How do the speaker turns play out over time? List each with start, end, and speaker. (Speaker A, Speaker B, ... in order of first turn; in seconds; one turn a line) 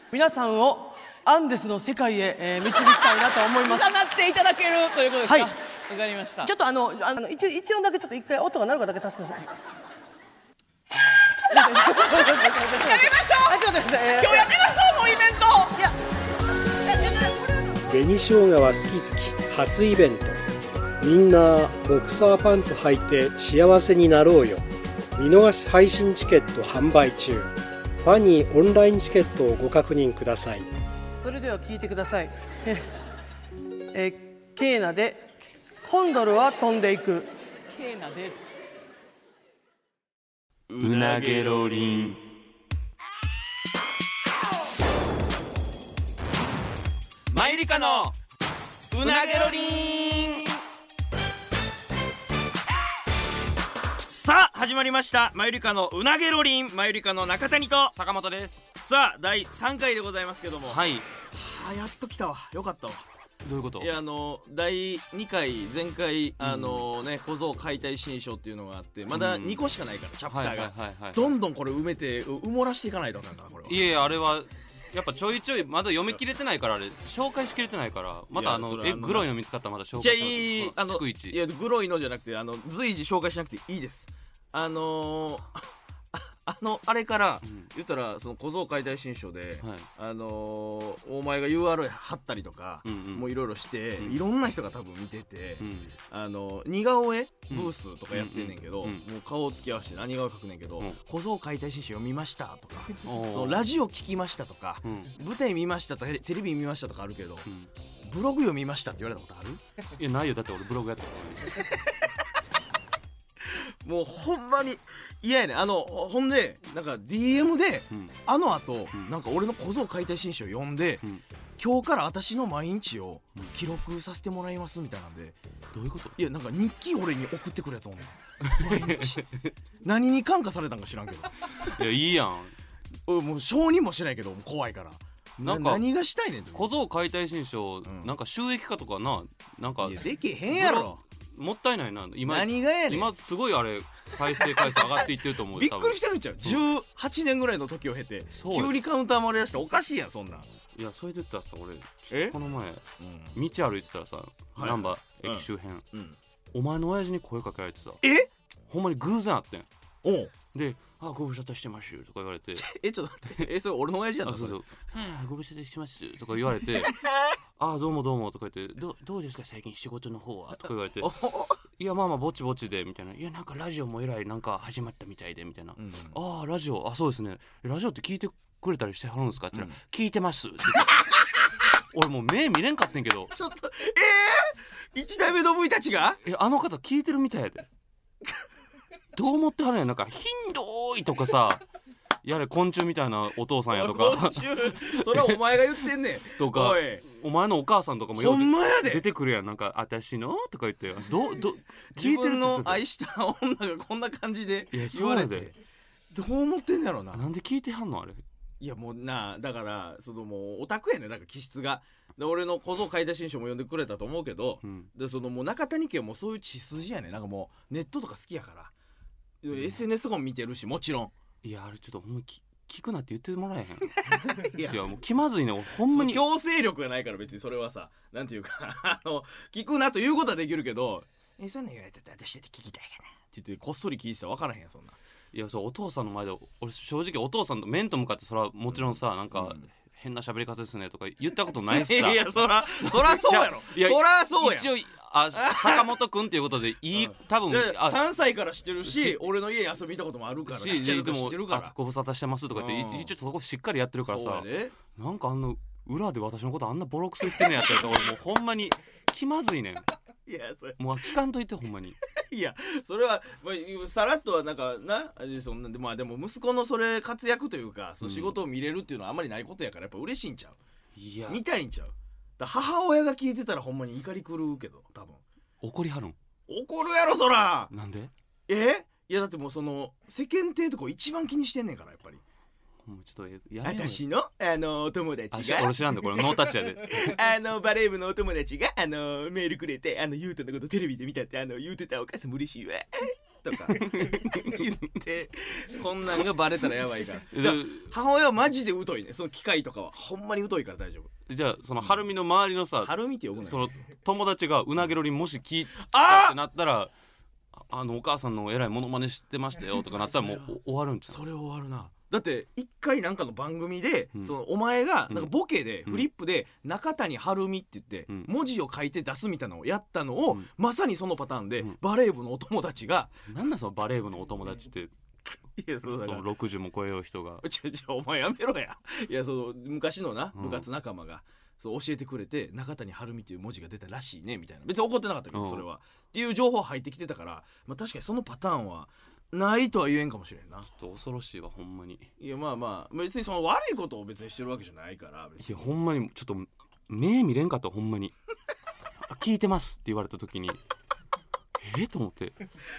Speaker A: 0.1-3.9
Speaker B: 3.6-6.5
Speaker A: 5.2-5.5
Speaker A: 6.4-9.5
Speaker A: 11.5-14.5
Speaker B: 11.5-15.8
Speaker C: 17.9-20.4
Speaker C: 21.0-24.6
Speaker C: 25.1-30.6
Speaker A: 31.2-32.9
Speaker A: 33.9-35.3
Speaker A: 35.8-37.3
Speaker B: 37.7-38.4
Speaker D: 40.7-41.8
Speaker E: 40.8-42.2
Speaker E: 47.3-48.1
Speaker D: 48.9-49.7
Speaker E: 49.0-50.5
Speaker D: 54.1-57.9
Speaker E: 57.9-58.6
Speaker D: 58.7-63.0
Speaker E: 60.6-61.1
Speaker E: 63.4-63.9
Speaker D: 63.8-73.8
Speaker E: 66.4-66.8
Speaker E: 69.1-69.7
Speaker E: 70.3-71.3
Speaker E: 73.7-81.4
Speaker D: 78.3-79.3
Speaker D: 80.0-85.5
Speaker D: 86.1-107.5
Speaker E: 87.4-87.7
Speaker E: 89.6-89.9
Speaker E: 92.8-93.3
Speaker E: 95.6-95.9
Speaker E: 97.5-99.0
Speaker E: 103.0-103.7
Speaker E: 104.8-105.1
Speaker D: 108.0-109.6
Speaker E: 109.9-111.6
Speaker D: 113.5-121.0
Speaker E: 117.9-118.2
Speaker D: 121.6-125.4
Speaker E: 125.7-126.2
Speaker D: 126.2-129.2
Speaker E: 128.5-129.5
Speaker D: 129.8-131.3
Speaker E: 131.6-132.5
Speaker D: 133.1-136.7
Speaker E: 135.4-135.8
Speaker E: 136.5-146.6
Speaker D: 137.8-138.1
Speaker D: 139.8-141.0
Speaker D: 142.3-143.1
Speaker D: 145.5-150.5
Speaker E: 148.3-148.8
Speaker E: 150.7-152.8
Speaker D: 152.1-152.3
Speaker D: 153.0-153.4
Speaker E: 153.3-155.8
Speaker D: 154.6-156.2
Speaker E: 156.5-158.0
Speaker D: 158.0-158.3
Speaker E: 158.7-159.7
Speaker D: 160.0-160.3
Speaker E: 160.5-162.7
Speaker D: 162.6-164.6
Speaker E: 164.2-167.0
Speaker E: 167.6-171.1
Speaker D: 171.0-171.6
Speaker E: 171.8-181.0
Speaker D: 175.8-176.2
Speaker E: 181.9-183.3
Speaker D: 183.3-186.2
Speaker E: 186.2-187.7
Speaker E: 189.1-191.6
Speaker E: 192.2-195.4
Speaker D: 193.7-197.0
Speaker E: 196.3-202.8
Speaker D: 198.2-199.0
Speaker D: 201.9-205.6
Speaker E: 204.7-205.5
Speaker D: 206.1-207.2
Speaker E: 207.1-208.2
Speaker D: 208.6-218.7
Speaker E: 214.6-214.9
Speaker D: 219.4-221.1
Speaker E: 219.5-219.8
Speaker E: 221.4-226.2
Speaker D: 224.0-224.8
Speaker D: 225.9-234.9
Speaker E: 235.3-248.0
Speaker D: 239.3-239.7
Speaker D: 241.7-244.7
Speaker D: 245.3-245.9
Speaker D: 246.9-251.7
Speaker E: 248.8-249.2
Speaker E: 250.4-259.9
Speaker D: 252.5-253.1
Speaker D: 254.1-254.7
Speaker D: 260.2-260.8
Speaker E: 260.8-262.0
Speaker D: 262.2-270.6
Speaker E: 268.0-268.3
Speaker E: 270.9-271.4
Speaker D: 271.3-275.2
Speaker E: 275.6-276.1
Speaker D: 276.5-277.7
Speaker E: 277.7-278.1
Speaker D: 278.5-282.2
Speaker E: 282.9-284.0
Speaker D: 283.6-301.1
Speaker E: 285.3-287.2
Speaker E: 293.7-294.6
Speaker E: 297.3-297.9
Speaker E: 301.3-306.9
Speaker D: 302.8-303.8
Speaker D: 305.9-306.4
Speaker E: 307.5-311.2
Speaker D: 310.0-310.5
Speaker D: 311.1-323.1
Speaker E: 323.3-324.9
Speaker D: 325.6-326.2
Speaker E: 326.0-327.4
Speaker D: 327.4-340.7
Speaker E: 330.3-330.7
Speaker E: 335.3-335.6
Speaker E: 340.6-342.1
Speaker D: 342.2-345.7
Speaker E: 345.4-348.1
Speaker E: 349.0-350.6
Speaker E: 351.6-352.4